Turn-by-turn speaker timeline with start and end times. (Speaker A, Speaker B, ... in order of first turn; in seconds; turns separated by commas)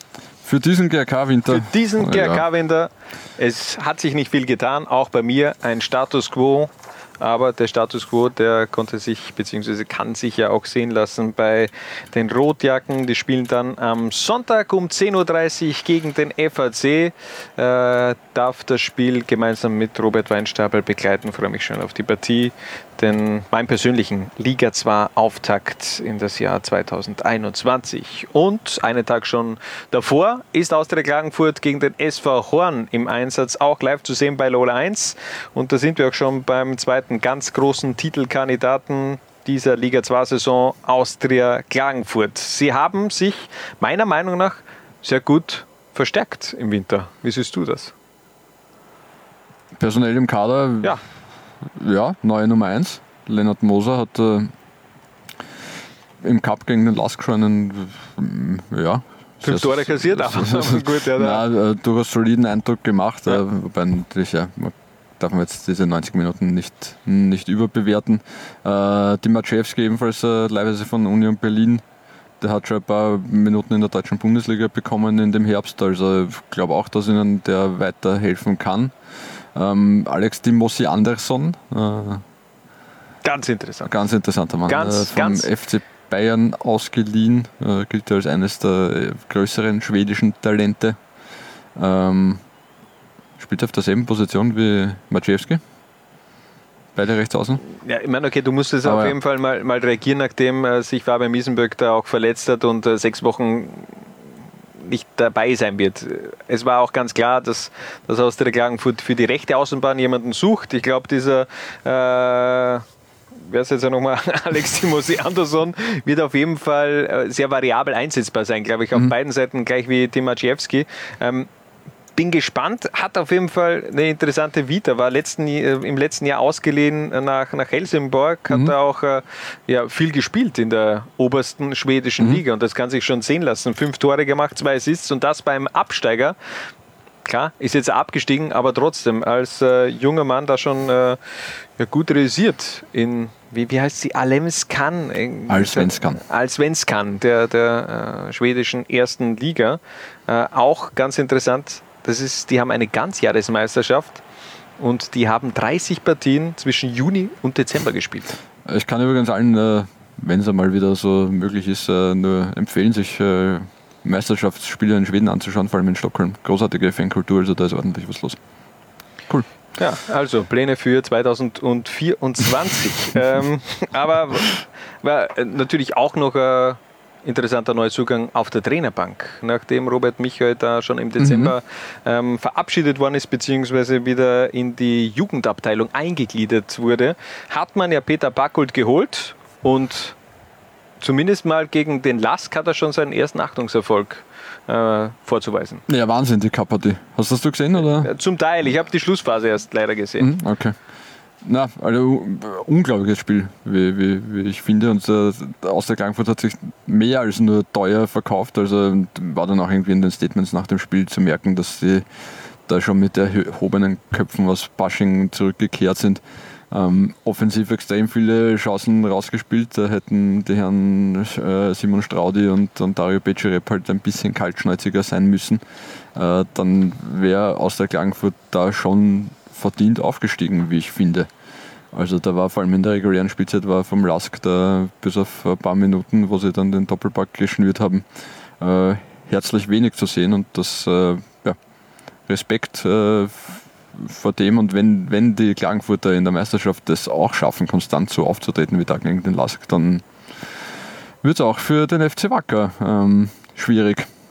Speaker A: 0.4-2.4, Speaker B: 1.5-47.9, Speaker A: 49.8-51.0, Speaker A: 51.7-54.5, Speaker A: 56.2-71.8, Speaker B: 59.4-61.4, Speaker A: 72.4-78.9, Speaker A: 79.5-82.2, Speaker B: 83.2-83.9, Speaker A: 83.8-91.0, Speaker B: 84.7-85.5, Speaker A: 91.8-92.4, Speaker A: 93.4-95.6, Speaker A: 97.0-97.6, Speaker B: 97.8-104.0, Speaker A: 98.8-99.2, Speaker B: 104.8-112.8, Speaker B: 113.4-121.5, Speaker B: 122.2-136.3, Speaker A: 128.5-128.7, Speaker B: 137.2-141.2, Speaker B: 141.8-154.2, Speaker A: 145.5-146.2, Speaker B: 154.8-158.3, Speaker A: 158.6-168.4, Speaker B: 169.8-190.2, Speaker A: 181.2-181.5, Speaker B: 191.0-195.8, Speaker A: 195.9-198.1, Speaker B: 197.8-200.3, Speaker A: 200.2-200.8, Speaker A: 201.4-212.1, Speaker A: 212.7-225.6, Speaker A: 226.1-231.3, Speaker A: 231.9-238.0, Speaker A: 238.6-241.6, Speaker A: 242.3-250.0, Speaker A: 251.2-254.1